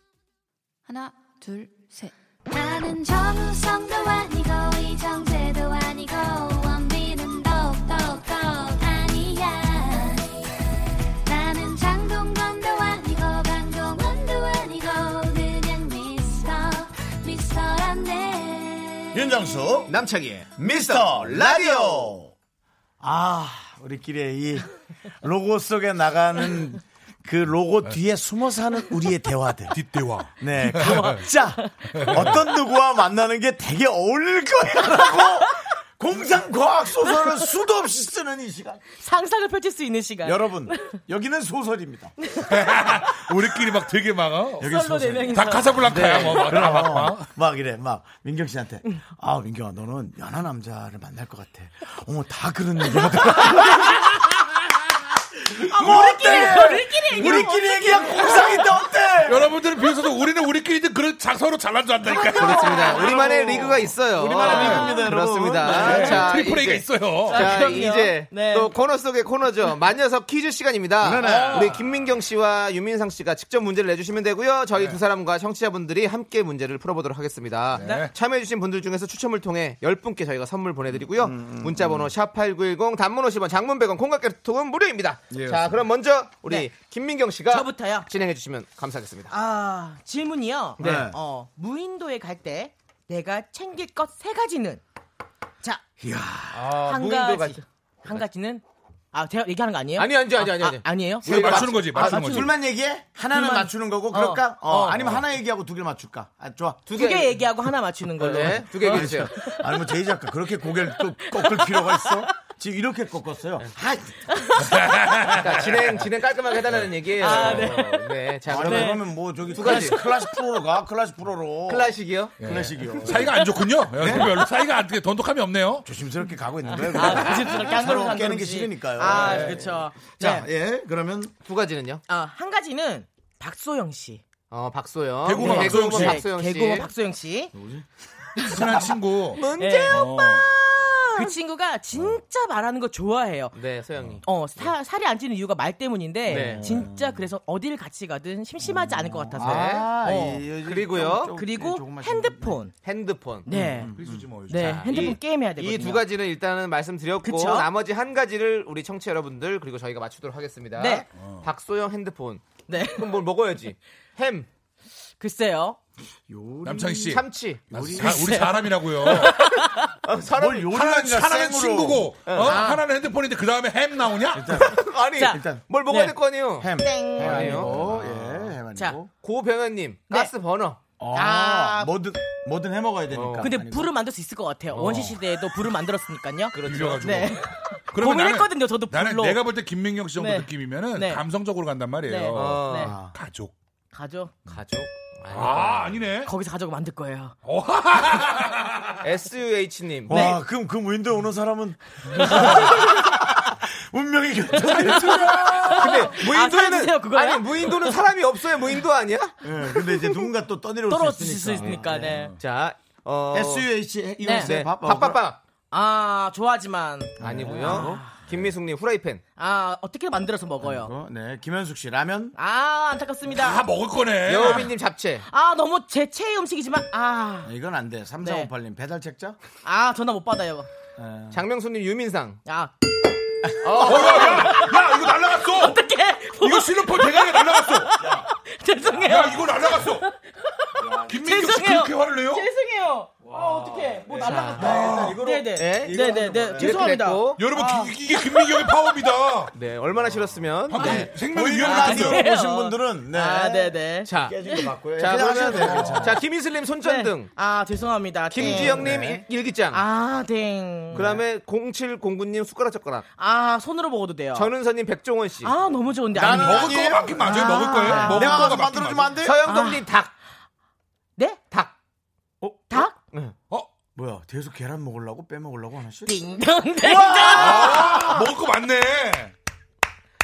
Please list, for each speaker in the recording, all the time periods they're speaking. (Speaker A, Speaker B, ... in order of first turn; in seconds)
Speaker A: 0.9-10.4, 11.2-19.2
Speaker B: 19.1-19.9, 20.6-22.3, 23.0-24.7, 25.2-29.8, 30.4-38.8, 40.2-42.1, 44.6-54.1, 55.5-59.5, 62.3-66.4, 71.0-71.8, 81.0-82.1, 85.3-85.8, 90.8-91.2, 96.0-96.7, 102.0-106.9, 108.2-114.3, 117.3-117.6, 118.5-123.4, 124.0-124.3, 125.8-131.3, 135.4-136.2, 137.5-137.9, 146.3-147.3, 148.6-152.6, 153.5-154.3, 166.3-168.4, 170.3-172.4, 174.3-175.6, 176.6-179.1, 181.0-183.9, 192.7-193.1, 200.1-206.0, 209.4-212.3, 213.3-215.2, 217.2-218.4, 220.6-222.4, 227.4-229.4, 231.0-231.4, 238.0-238.3, 238.9-239.2, 240.8-241.2, 243.3-247.0, 250.8-256.2, 258.4-259.2, 260.9-261.2, 266.1-269.4, 272.4-272.8, 273.9-276.2, 276.8-278.2
Speaker C: 19.9-22.1, 45.9-46.5, 62.4-89.3, 90.8-91.1, 96.5-98.2, 100.0-102.5, 106.9-107.4, 108.2-109.3, 115.2-120.0, 121.7-123.2, 129.1-129.6, 131.4-132.0, 134.5-136.9, 139.4-140.1, 143.5-144.7, 146.3-146.8, 149.4-149.9, 150.6-151.4, 152.8-153.5, 154.6-164.5, 167.1-167.7, 170.1-170.8, 172.3-172.6, 174.6-178.1, 179.2-180.8, 183.1-183.5, 184.7-185.1, 186.5-187.3, 192.3-192.9, 194.5-196.1, 199.0-200.3, 205.6-209.3, 212.4-213.7, 214.4-215.4, 217.2-219.2, 224.3-225.2, 231.3-232.4, 233.6-234.6, 244.1-247.4, 249.5-251.1, 254.1-254.4, 254.9-257.3, 258.3-259.8, 260.9-263.1, 264.3-265.5, 268.0-268.6, 269.2-270.1
Speaker D: 29.7-31.2, 31.9-32.4, 42.5-44.7, 45.3-47.3, 59.2-63.8, 64.4-64.9, 65.7-67.5, 77.7-78.1, 101.2-102.5, 114.6-115.7, 122.4-125.9, 135.2-136.2, 138.4-140.5, 153.9-154.9, 161.1-161.4, 166.6-169.4, 170.7-174.6, 177.7-178.1, 186.6-187.4, 187.9-193.6, 195.3-196.3, 197.4-198.9, 223.3-224.7, 233.8-235.8, 236.4-237.9, 239.0-240.1, 241.1-242.4, 244.7-245.2, 247.3-249.5, 250.7-252.3, 255.6-256.0, 266.2-269.1, 277.3-279.3
Speaker E: 30.8-31.7, 37.0-37.4, 39.0-41.0, 44.6-46.2, 55.7-58.7, 62.1-63.4, 64.4-66.3, 67.3-68.7, 71.2-71.7, 77.8-78.1, 87.5-88.1, 89.3-94.8, 96.8-101.7, 103.3-105.1, 106.9-109.6, 110.9-112.3, 117.2-119.0, 126.9-130.5, 132.1-134.2, 135.5-137.5, 139.6-143.6, 144.2-150.4, 151.3-152.7, 153.5-153.9, 154.4-156.1, 157.2-157.7, 160.8-161.1, 162.7-163.2, 165.2-165.8, 168.1-169.9, 172.5-172.8, 175.2-176.2, 176.8-177.6, 181.1-181.9, 183.4-189.4, 190.2-191.2, 192.0-192.9, 193.9-194.4, 196.3-197.4, 200.1-200.4, 205.5-208.0, 210.9-212.3, 214.2-214.5, 215.7-218.2, 219.4-220.9, 222.4-223.6, 225.3-227.5, 228.2-228.5, 229.6-230.7, 232.4-232.7, 233.9-248.4, 251.5-254.7, 256.8-259.1, 259.7-261.1, 263.2-264.5, 265.4-268.4, 269.4-269.9, 271.2-271.4, 272.7-273.0, 276.1-278.2